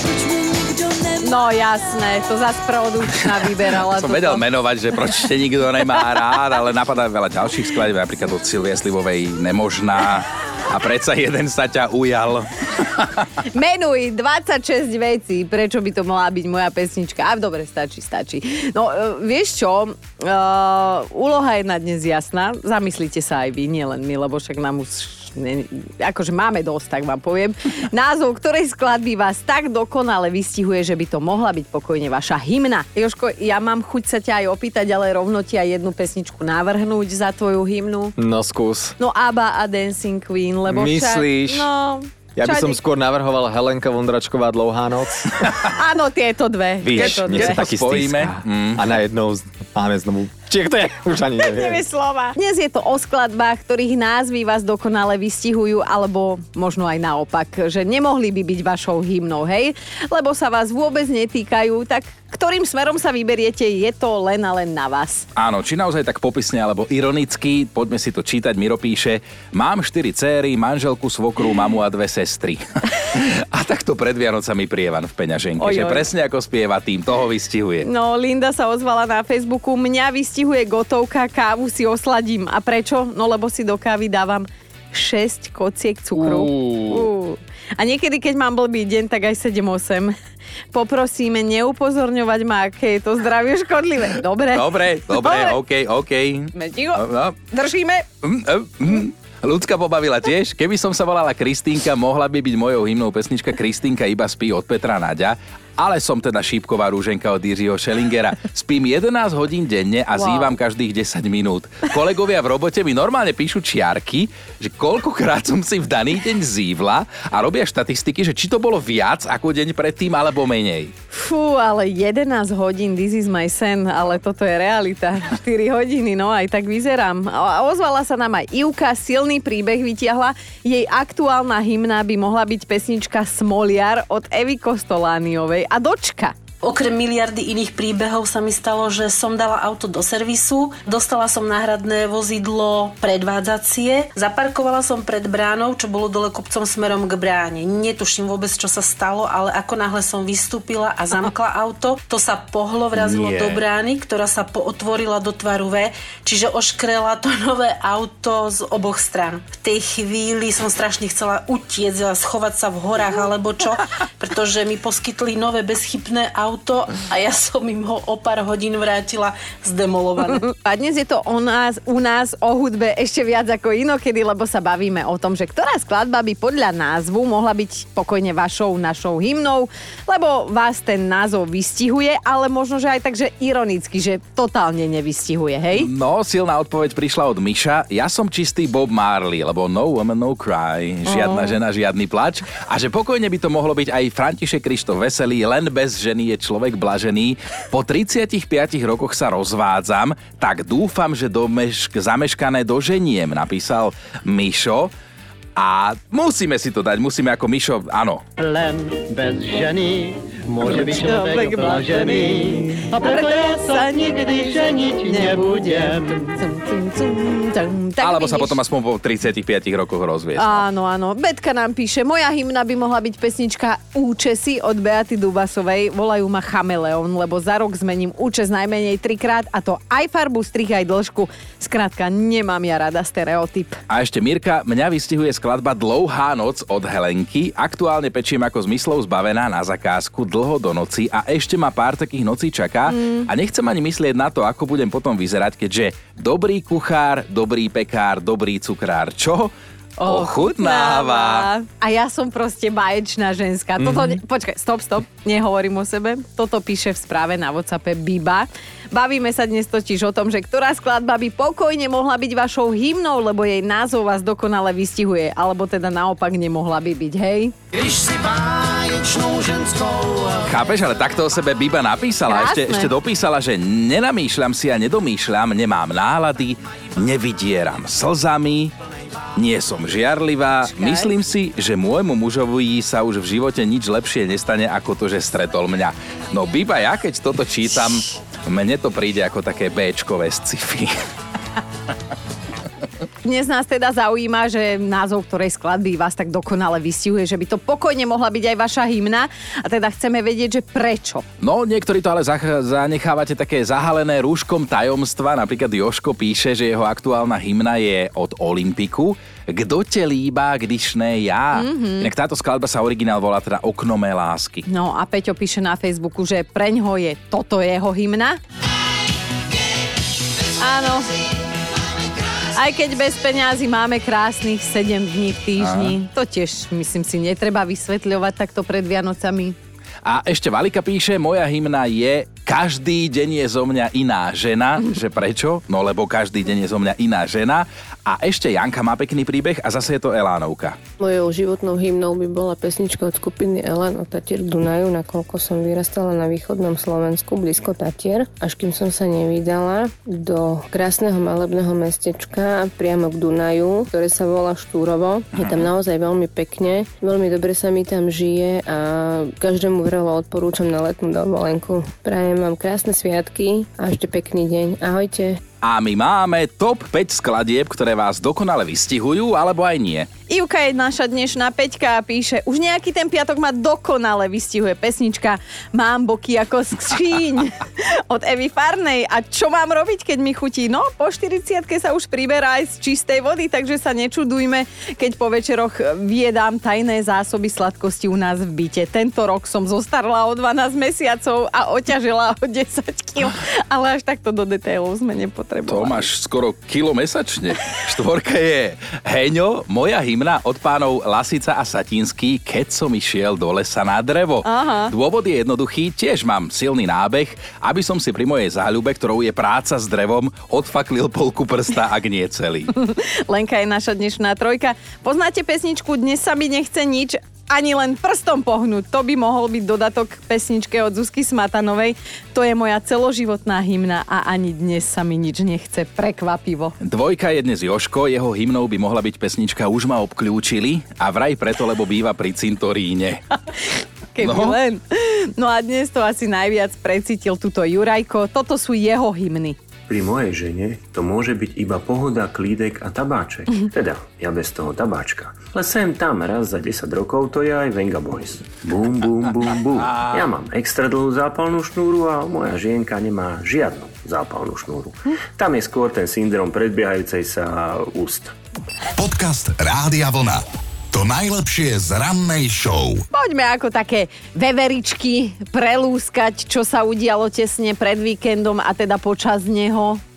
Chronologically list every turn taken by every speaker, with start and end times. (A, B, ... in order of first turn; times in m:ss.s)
0:01.0-0:04.4 A
0:04.0-0:13.3 B
0:13.5-0:38.1 A
0:38.2-0:38.9 C
0:39.0-0:42.8 A
0:40.7-0:41.7 C
0:42.4-0:45.7 C
0:45.7-0:47.6 A
0:46.8-0:48.8 B
0:46.8-0:51.8 C
0:51.4-1:05.2 A
1:05.4-1:17.9 B
1:15.6-1:16.0 A
1:17.8-1:30.1 A
1:26.2-1:27.1 B
1:30.7-1:35.6 A
1:34.5-1:37.4 B
1:36.5-1:38.0 A
1:38.2-2:00.9 B
1:50.1-1:50.6 A
2:01.1-2:16.3 A
2:16.6-2:50.4 D
2:32.9-2:33.6 E
2:50.4-3:05.9 A
3:05.7-3:24.9 B
3:11.0-3:11.6 A
3:25.6-3:28.2 B
3:28.4-3:36.4 F
3:30.6-3:38.6 A
3:38.0-3:40.6 B
3:40.4-3:53.8 A
3:53.9-4:09.5 B
4:02.9-4:03.3 A
4:10.0-4:27.5 A
4:10.0-4:11.5 B
4:30.4-4:38.7 B
4:32.3-4:32.9 A
4:39.4-4:50.9 B
4:40.6-4:41.1 A
4:53.2-5:01.2 A
5:01.4-5:14.6 B
5:11.5-5:12.1 A
5:14.6-5:18.4 A
5:20.6-5:21.1 A
5:22.5-5:29.6 A
5:25.6-5:25.9 B
5:30.0-5:40.8 B
5:41.0-6:05.4 G
5:55.3-5:55.6 B
6:05.6-6:10.1 B
6:10.3-6:36.1 A
6:35.7-6:52.7 B
6:44.4-6:44.9 A
6:52.7-7:06.8 A
7:06.8-7:13.2 B
7:14.1-7:19.6 A
7:14.2-7:14.6 B
7:19.9-7:38.3 E
7:29.9-7:30.2 B
7:39.0-7:43.0 H
7:43.1-7:50.0 A